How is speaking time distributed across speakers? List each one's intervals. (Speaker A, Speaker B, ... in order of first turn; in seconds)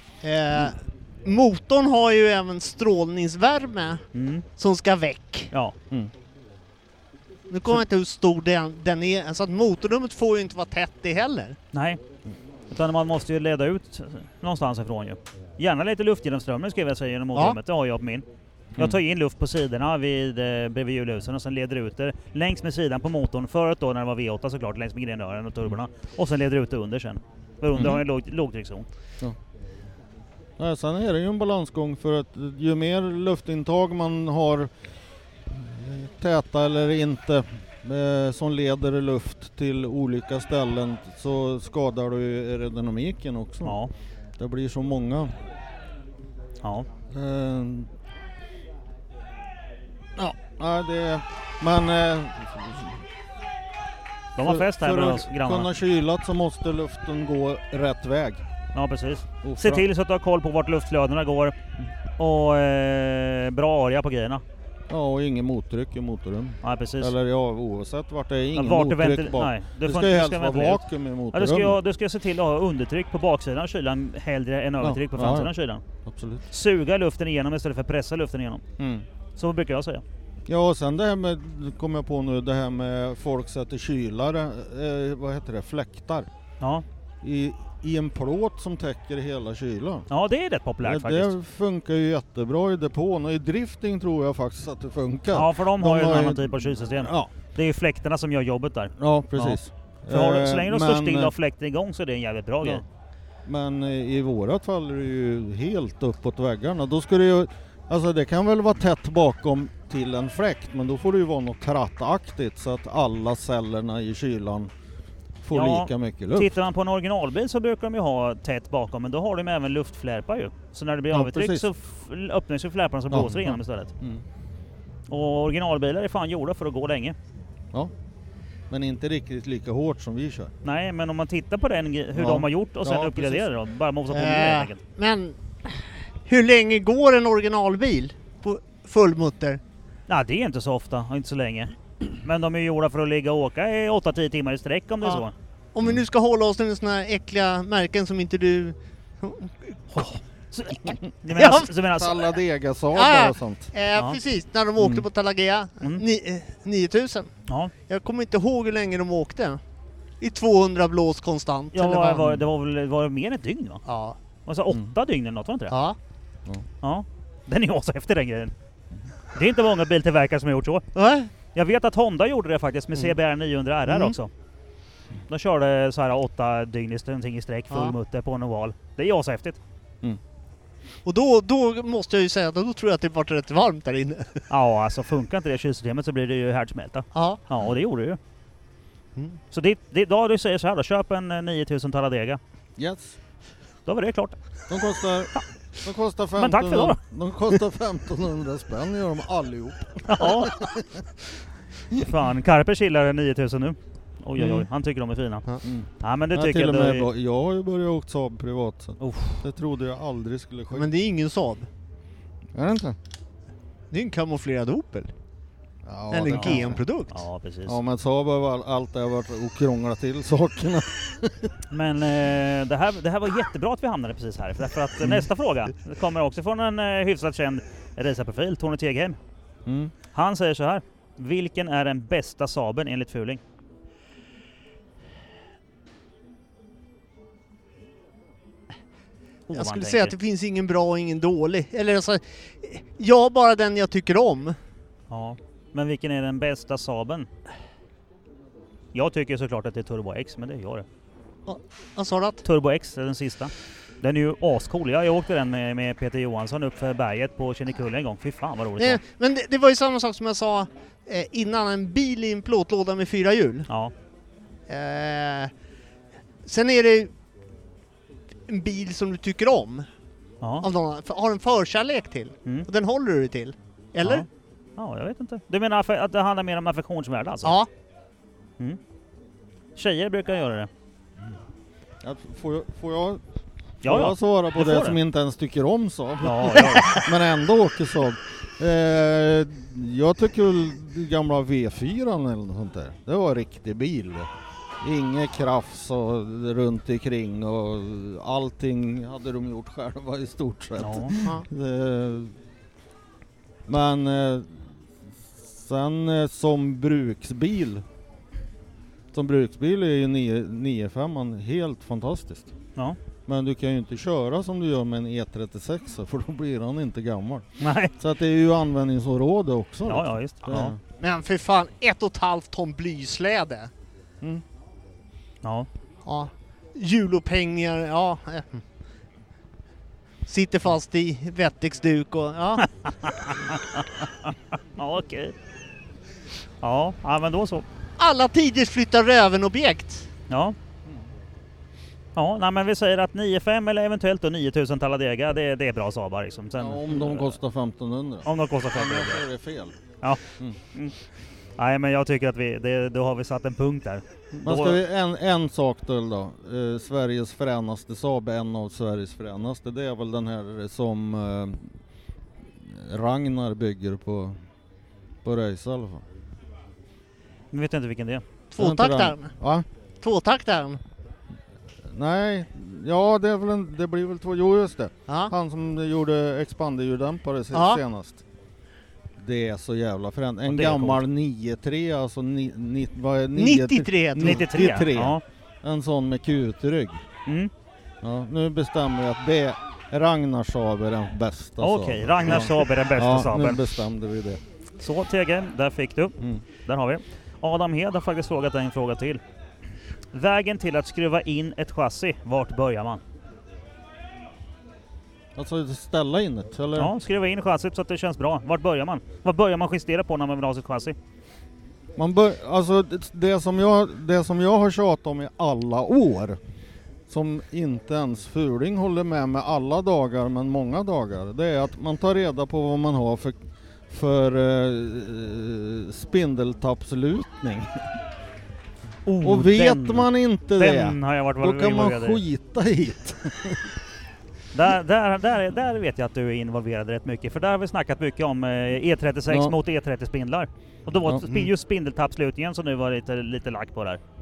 Speaker A: 0.2-4.0, 4.6-5.5, 7.5-11.6, 134.1-139.6, 145.7-150.1, 151.3-151.7, 152.9-157.3, 157.9-159.6, 160.2-162.3, 163.9-164.2, 165.7-166.0, 170.9-171.3, 173.9-174.2, 181.1-184.4, 187.1-187.4, 210.7-211.7, 213.9-215.1, 216.1-217.2, 239.6-244.6, 251.5-252.4, 258.8-263.7, 264.7-265.5, 266.4-267.1, 268.5-269.9, 270.6-274.3, 277.4-277.7, 301.2-301.5, 321.0-323.7, 326.1-328.6, 330.2-332.7, 338.0-340.1, 368.5-369.3, 370.0-370.8, 375.1-375.3, 377.5-377.8, 383.4-384.7
Speaker B: 4.1-4.5, 11.7-12.0, 12.7-18.3, 18.8-28.9, 43.6-43.9, 46.6-46.9, 54.4-55.7, 58.7-61.6, 62.2-64.4, 66.6-67.1, 68.5-75.8, 76.5-78.6, 79.4-80.0, 86.6-86.8, 90.1-91.3, 95.3-102.8, 115.5-123.9, 125.1-127.2, 130.6-134.8, 140.1-145.3, 149.9-152.3, 157.5-157.7, 161.7-163.8, 164.4-165.8, 166.8-168.5, 169.3-170.9, 171.5-174.3, 175.3-179.6, 184.5-188.2, 189.5-192.4, 193.9-194.4, 196.4-197.0, 200.1-200.6, 201.9-205.5, 206.0-207.1, 209.0-209.4, 216.3-217.8, 221.7-229.2, 230.1-233.4, 239.5-240.2, 245.1-247.3, 248.9-250.9, 252.4-259.0, 270.4-270.7, 274.0-277.6, 279.8-280.7, 283.8-285.0, 286.2-287.1, 300.8-301.2, 317.6-317.9, 319.9-320.8, 325.4-325.7, 332.6-335.4, 336.6-337.6, 340.3-340.6, 342.2-347.4, 348.2-349.3, 351.6-354.8, 367.5-368.2, 380.5-381.0, 384.2-385.2, 387.3-387.5, 391.6-393.8, 394.8-399.2, 400.1-403.0, 406.8-411.0, 429.1-432.2, 434.5-444.0
Speaker C: 27.8-28.0, 30.6-34.7, 35.5-43.8, 44.4-45.3, 47.1-47.9, 50.2-53.0, 54.4-58.4, 59.4-59.9, 64.9-71.8, 74.8-75.5, 76.0-76.4, 78.8-79.0, 80.5-86.3, 87.2-90.1, 90.8-97.3, 99.0-101.3, 103.5-114.7, 115.4-116.5, 121.1-121.7, 123.1-124.2, 128.7-130.5, 132.2-133.5, 151.8-153.7, 154.8-155.1, 192.8-193.2, 194.7-201.1, 204.4-204.7, 205.6-210.9, 212.5-213.0, 215.8-216.8, 217.7-221.5, 229.7-229.9, 282.0-283.2, 283.8-302.3, 303.7-304.7, 305.3-307.9, 309.1-312.5, 313.3-317.5, 318.0-320.8, 346.6-349.8, 350.3-350.6, 354.4-361.7, 362.6-364.4, 365.2-366.1, 368.6-369.7, 371.9-378.2, 379.2-387.0, 388.0-394.4, 405.4-406.9, 412.0-416.4, 417.1-427.9, 429.2-433.8, 439.3-439.6